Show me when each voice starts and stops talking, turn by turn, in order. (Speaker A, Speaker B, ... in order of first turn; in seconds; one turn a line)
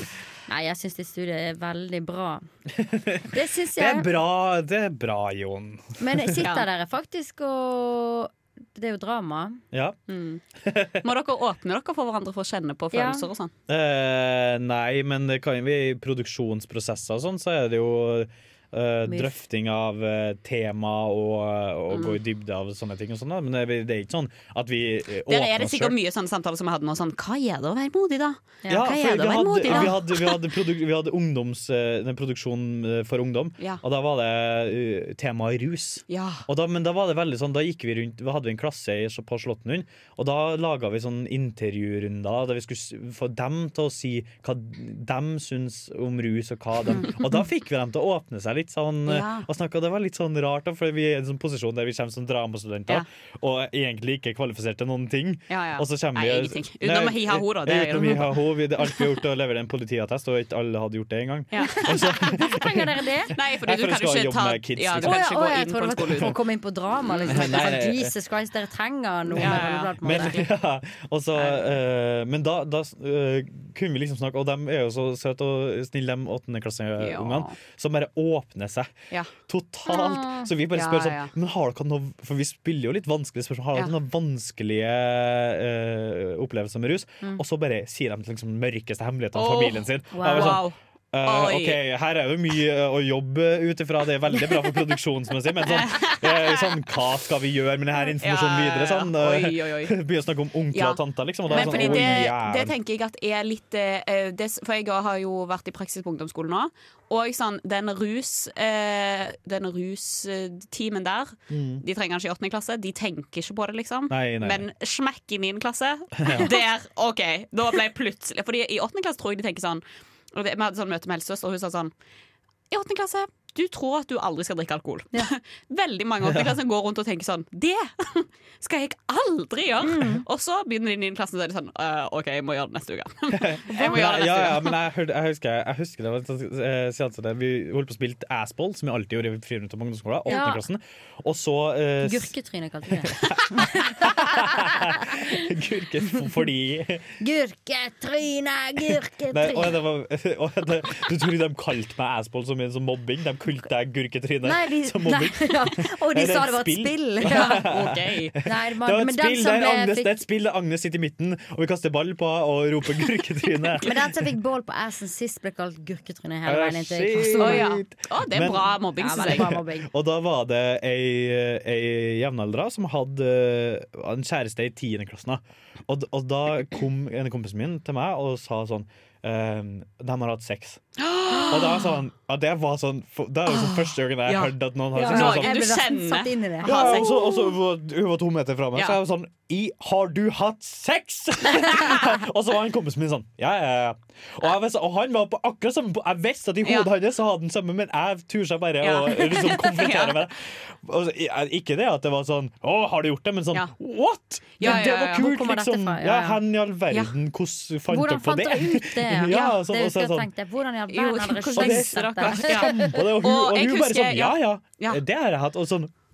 Speaker A: 0.5-2.4
Speaker B: 2.7-6.5
Speaker A: 3.3-4.1
Speaker A: 6.0-9.6
Speaker B: 9.7-10.0
Speaker C: 10.1-10.4
Speaker B: 10.6-11.0
Speaker C: 11.0-13.5
Speaker A: 12.9-13.2
Speaker B: 13.7-26.0
Speaker A: 19.1-19.4
Speaker C: 21.9-22.2
Speaker C: 25.3-30.4
Speaker A: 28.6-28.9
Speaker B: 28.7-63.0
Speaker A: 29.6-29.9
Speaker C: 36.1-36.4
Speaker C: 49.0-49.5
Speaker C: 55.5-58.4
Speaker C: 61.5-62.0
Speaker A: 61.7-63.3
Speaker C: 63.3-66.3
Speaker B: 63.6-65.2
Speaker A: 65.0-70.4
Speaker C: 67.0-67.7
Speaker B: 67.3-68.1
Speaker B: 69.3-78.9
Speaker C: 69.4-70.5
Speaker C: 71.3-71.7
Speaker C: 77.0-77.5
Speaker B: 79.5-102.7
Speaker A: 79.9-80.5
Speaker C: 80.7-81.3
Speaker C: 89.3-91.8
Speaker A: 90.1-90.6
Speaker C: 95.7-96.8
Speaker C: 98.2-100.0
Speaker C: 100.7-121.9
Speaker A: 101.5-102.2
Speaker B: 111.5-111.8
Speaker B: 114.1-114.6
Speaker B: 116.2-116.5
Speaker C: 122.7-134.7
Speaker B: 126.2-126.5
Speaker A: 129.8-130.2
Speaker B: 133.3-142.3
Speaker A: 133.7-134.0
Speaker A: 140.3-140.6
Speaker A: 142.0-145.4
Speaker B: 142.9-147.1
Speaker A: 147.2-149.8
Speaker B: 148.9-164.0
Speaker A: 154.4-157.7
Speaker C: 157.2-158.3
Speaker A: 158.4-160.2
Speaker A: 163.8-167.7
Speaker B: 166.4-180.8
Speaker C: 167.4-169.5
Speaker A: 168.9-169.9
Speaker C: 181.0-181.9
Speaker B: 181.5-185.8
Speaker C: 183.5-187.4
Speaker A: 184.9-187.1
Speaker B: 186.6-210.3
Speaker C: 196.6-196.9
Speaker C: 198.8-200.2
Speaker C: 204.6-205.2
Speaker A: 204.6-206.4
Speaker A: 207.9-213.0
Speaker C: 210.9-215.0
Speaker B: 211.6-215.9